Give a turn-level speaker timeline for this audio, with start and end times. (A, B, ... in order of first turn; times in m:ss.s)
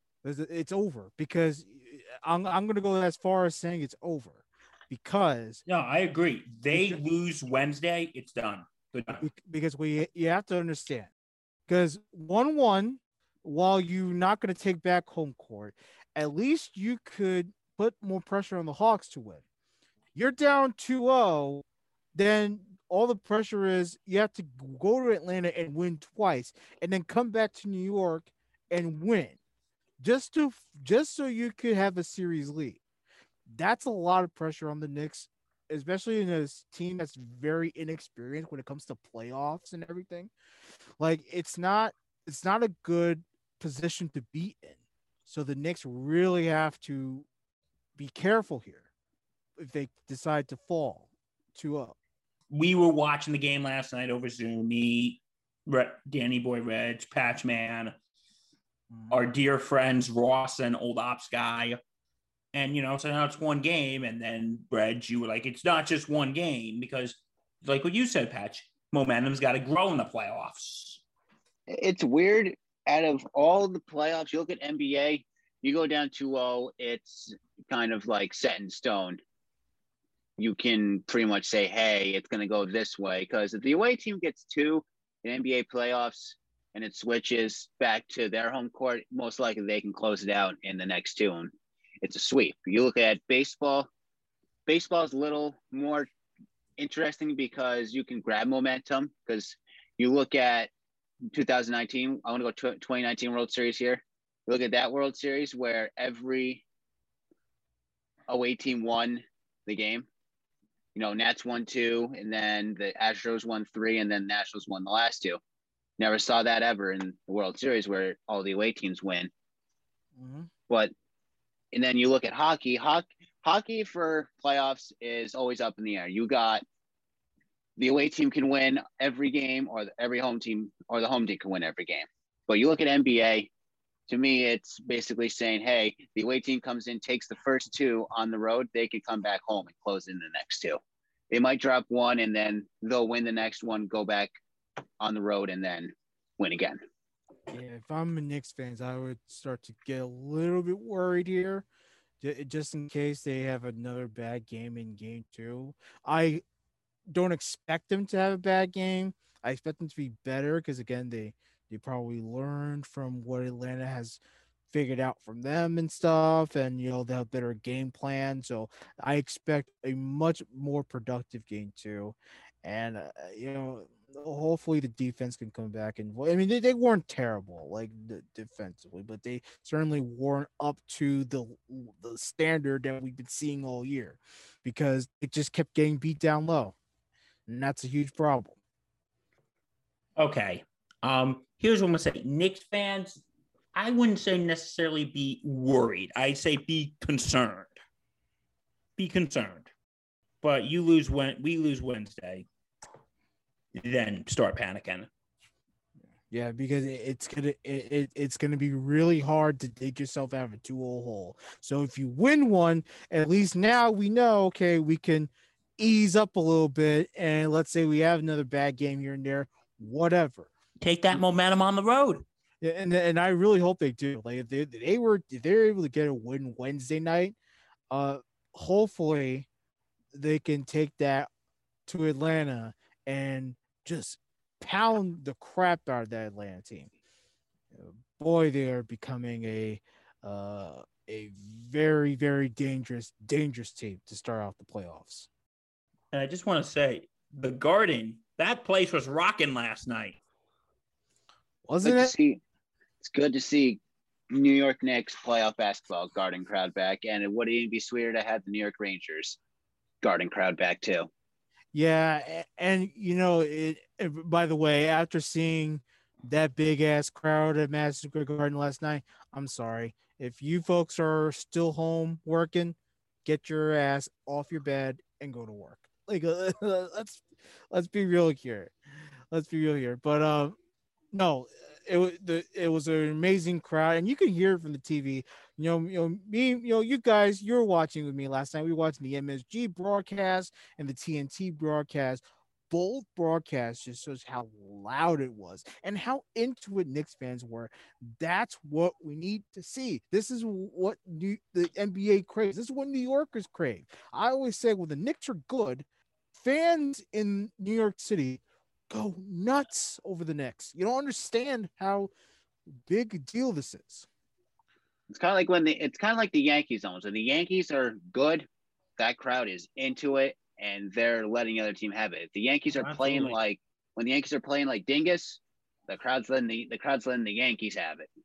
0:00.2-0:05.6 A
0:05.7-0:09.3 B
0:06.7-0:07.0 A
0:09.2-0:11.1 A
0:11.7-0:19.4 A
0:20.1-0:21.6 A
0:22.1-0:29.4 A
0:30.0-0:32.8 A
0:33.5-0:40.3 A
0:41.0-0:47.3 A
0:48.0-0:48.8 A
0:49.6-0:52.0 A
0:52.5-0:58.0 B
0:58.9-0:59.2 A
0:59.1-1:01.8 B
1:02.5-1:11.0 B
1:11.7-1:19.2 C
1:20.4-1:33.9 C
1:34.7-1:36.1 C
1:36.8-1:40.7 C
1:41.3-1:46.6 C
1:48.3-1:50.1 C
1:50.9-1:55.4 C
1:56.0-1:59.3 C
2:00.2-2:00.5 A
2:01.7-2:06.6 C
2:07.8-2:13.5 C
2:14.1-2:24.3 C
2:25.0-2:26.8 C
2:27.5-2:31.6 A
2:32.2-2:36.4 A
2:37.1-3:06.7 A
3:07.5-3:08.6 A
3:10.2-3:13.2 B
3:13.7-3:17.8 B
3:19.0-3:19.7 B
3:20.4-3:22.4 B
3:23.7-3:25.1 B
3:26.3-3:40.5 A
3:40.8-3:42.2 B
3:42.6-3:47.4 A
3:47.9-3:49.5 A
3:50.1-3:51.3 A
3:51.9-3:56.9 A
3:57.7-4:05.3 A
4:06.1-4:10.2 B
4:11.6-4:12.1 A
4:11.8-4:12.4 C
4:13.0-4:19.4 C
4:20.0-4:21.1 C
4:21.7-4:38.7 A
4:39.3-4:40.6 A
4:41.1-5:12.1 A
5:12.7-5:14.1 A
5:15.1-5:28.1 C
5:22.9-5:23.2 B